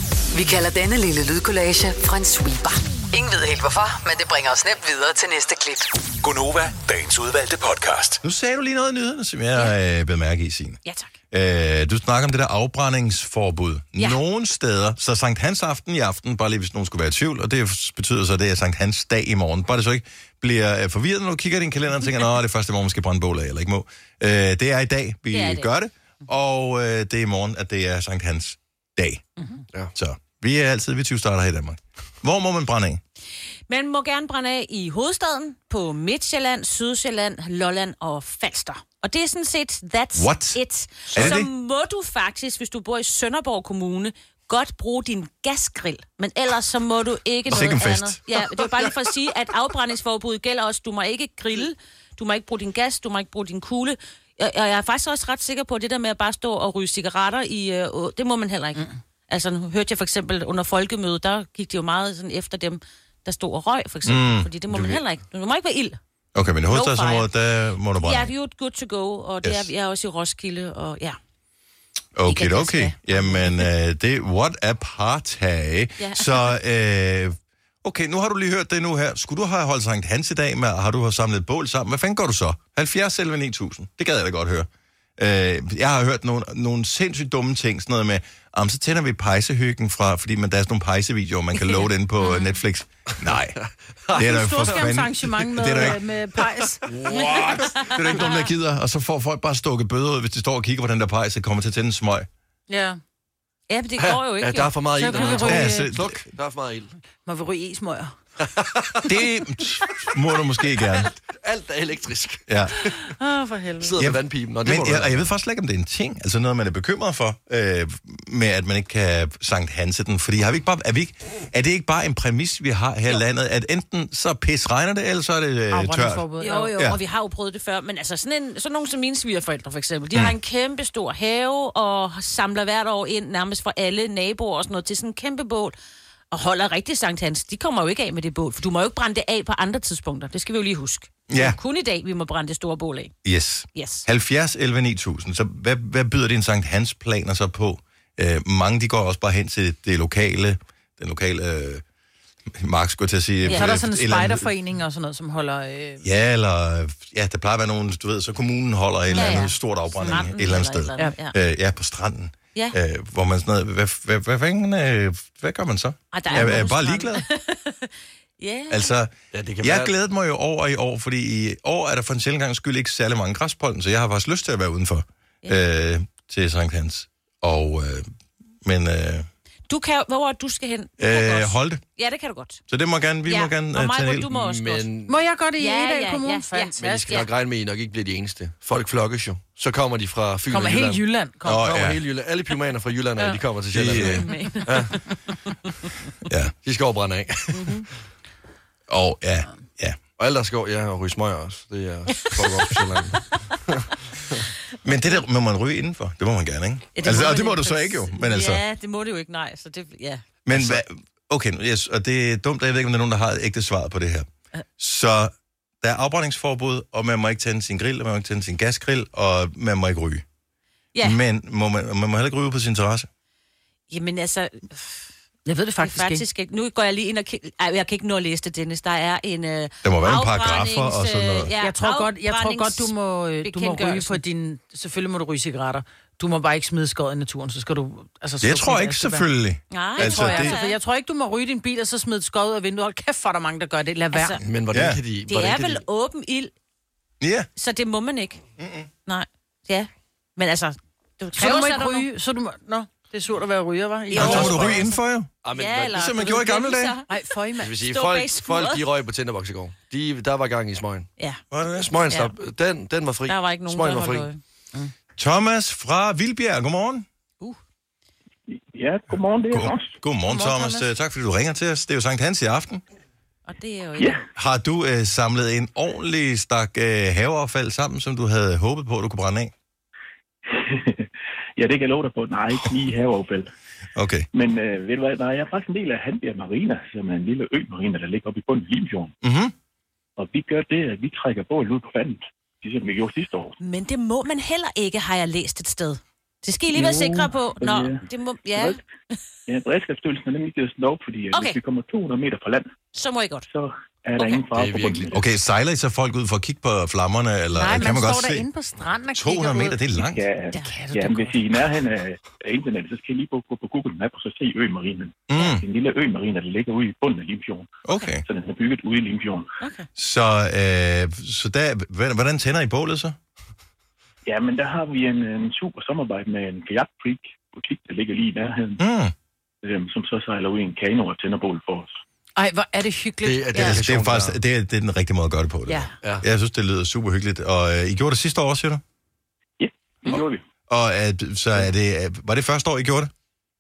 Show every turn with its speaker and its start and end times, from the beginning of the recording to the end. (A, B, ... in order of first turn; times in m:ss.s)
0:00.3-0:05.9 A
0:06.2-0:08.2 B
0:08.2-0:10.8 C
0:10.8-0:11.1 D
0:11.3-0:29.2 C
0:25.3-0:25.7 D
0:30.0-0:33.0 C
0:33.7-1:06.0 D
0:40.1-0:40.6 C
0:41.1-0:41.5 C
0:47.5-0:48.2 C
1:04.0-1:04.5 C
1:04.7-1:05.0 E
1:06.4-1:08.3 C
1:06.7-1:07.3 D
1:08.0-1:11.2 D
1:09.4-1:09.7 C
1:12.2-1:33.6 C
1:12.2-1:13.7 D
1:16.0-1:16.5 D
1:32.2-1:32.6 D
1:34.1-1:34.8 E
1:34.1-1:36.0 C
1:34.1-1:36.8 F
1:36.9-1:37.9 E
1:37.0-1:42.3 C
1:42.7-1:43.0 F
1:43.7-1:45.6 D
1:44.0-1:46.9 E
1:45.0-1:45.9 F
1:45.4-1:46.2 C
1:47.2-1:48.1 F
1:48.5-1:49.1 E
1:49.0-1:51.1 C
1:51.0-1:53.0 E
1:52.5-1:52.8 C
1:53.1-1:54.0 F
1:53.8-1:55.3 E
1:54.0-2:06.2 C
2:05.7-2:06.7 F
2:06.4-2:15.8 D
2:16.3-2:23.1 D
2:21.3-2:21.6 C
2:23.2-2:31.8 C
2:23.8-2:24.0 D
2:32.5-2:34.5 C
2:33.5-2:33.7 D
2:33.5-2:36.0 F
2:36.0-2:47.2 C
2:39.1-2:41.3 D
2:39.2-2:39.4 F
2:46.1-2:48.9 D
2:48.7-2:58.1 C
2:49.3-2:49.9 E
2:58.6-2:59.3 C
2:59.7-3:02.6 D
3:01.0-3:01.8 C
3:02.7-3:04.3 C
3:03.2-3:04.9 D
3:04.3-3:05.1 E
3:05.1-3:07.2 F
3:05.6-3:07.3 D
3:06.8-3:15.0 E
3:10.5-3:11.6 F
3:11.4-3:12.0 C
3:13.7-3:14.2 C
3:14.0-3:14.6 D
3:14.0-3:14.8 F
3:16.3-3:16.5 C
3:16.6-3:17.8 E
3:18.9-3:20.0 C
3:20.2-3:24.5 E
3:24.8-3:28.6 C
3:27.0-3:30.2 D
3:30.5-3:40.2 C
3:30.5-3:30.8 E
3:41.0-3:43.1 C
3:43.9-3:44.9 D
3:45.5-3:46.2 F
3:45.8-3:52.9 D
3:49.8-3:51.5 C
3:51.6-3:59.2 F
3:53.4-3:54.2 D
3:58.4-4:00.6 C
3:59.7-4:00.8 D
4:00.0-4:04.4 F
4:04.1-4:04.4 D
4:04.4-4:05.8 E
4:04.7-4:05.0 C
4:05.3-4:06.5 D
4:07.2-4:07.5 C
4:07.6-4:08.4 D
4:08.6-4:08.9 C
4:09.1-4:12.1 D
4:11.4-4:14.8 F
4:14.1-4:14.8 D
4:14.1-4:15.3 C
4:14.2-4:14.8 E
4:15.4-4:16.5 E
4:15.5-4:17.0 D
4:15.9-4:17.0 C
4:17.1-4:17.8 F
4:17.6-4:21.1 E
4:17.8-4:18.8 D
4:21.5-4:21.9 C
4:21.8-4:24.3 E
4:23.2-4:24.4 D
4:25.2-4:27.0 C
4:28.5-4:30.0 G
4:29.5-4:32.8 C
4:30.3-4:30.9 F
4:33.5-4:34.2 D
4:34.4-4:39.5 C
4:40.5-4:43.5 G
4:44.0-4:44.3 C
4:44.3-4:49.2 G
4:49.2-4:49.5 C
4:50.2-4:53.6 G
4:53.6-4:58.8 D
4:56.7-4:58.8 G
4:59.5-5:02.7 G
5:01.3-5:01.6 D
5:03.0-5:03.5 D
5:03.5-5:05.2 G
5:04.5-5:05.2 E
5:05.1-5:08.5 C
5:07.5-5:10.0 F
5:09.2-5:10.2 C
5:10.0-5:19.5 G
5:10.5-5:11.4 F
5:15.3-5:15.6 C
5:17.8-5:18.2 C
5:19.6-5:19.9 D
5:20.0-5:23.2 C
5:24.2-5:28.8 G
5:28.8-5:29.1 C
5:29.6-5:32.0 G
5:32.4-5:33.7 F
5:33.2-5:34.4 E
5:33.5-5:38.8 C
5:39.6-5:40.4 G
5:40.7-5:43.1 C